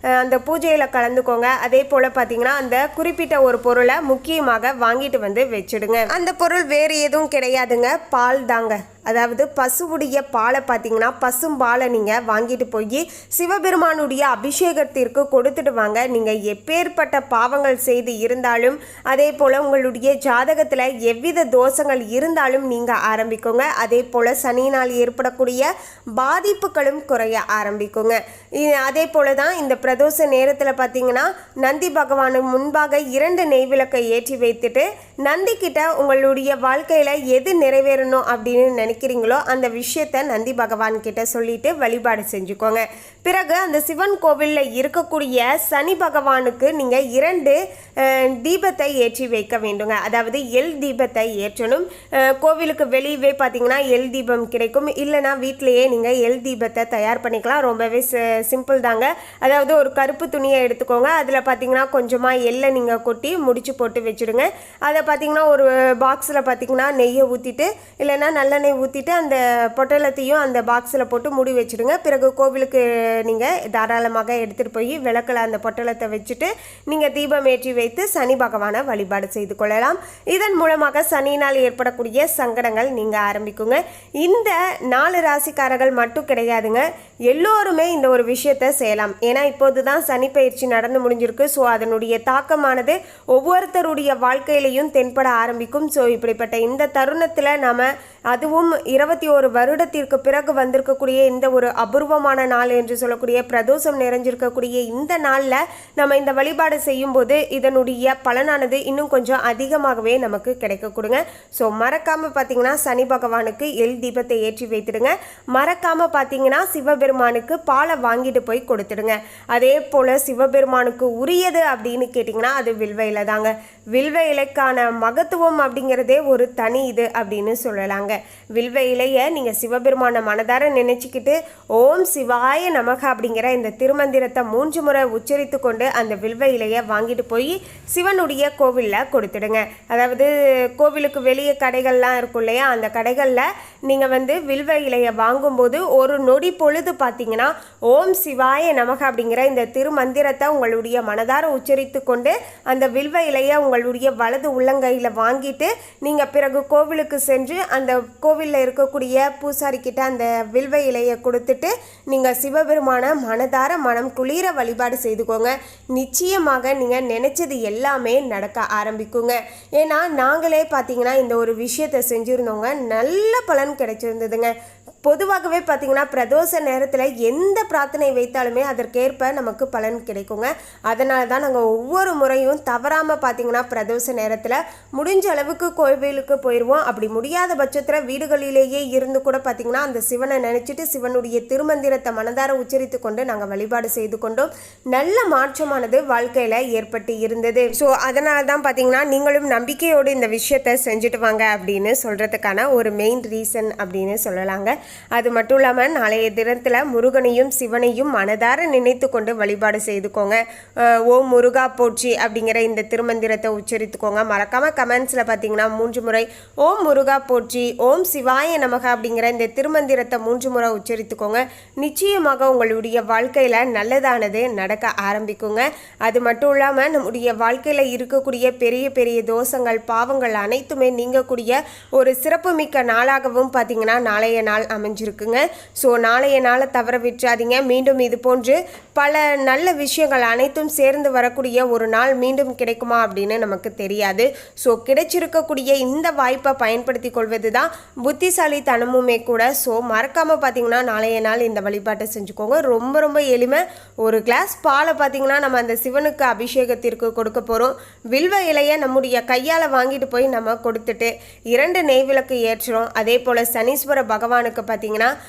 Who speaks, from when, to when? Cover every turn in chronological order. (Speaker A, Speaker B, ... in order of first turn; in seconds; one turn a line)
Speaker A: 0.2-174.5
Speaker A: 175.1-210.4
Speaker A: 210.9-265.1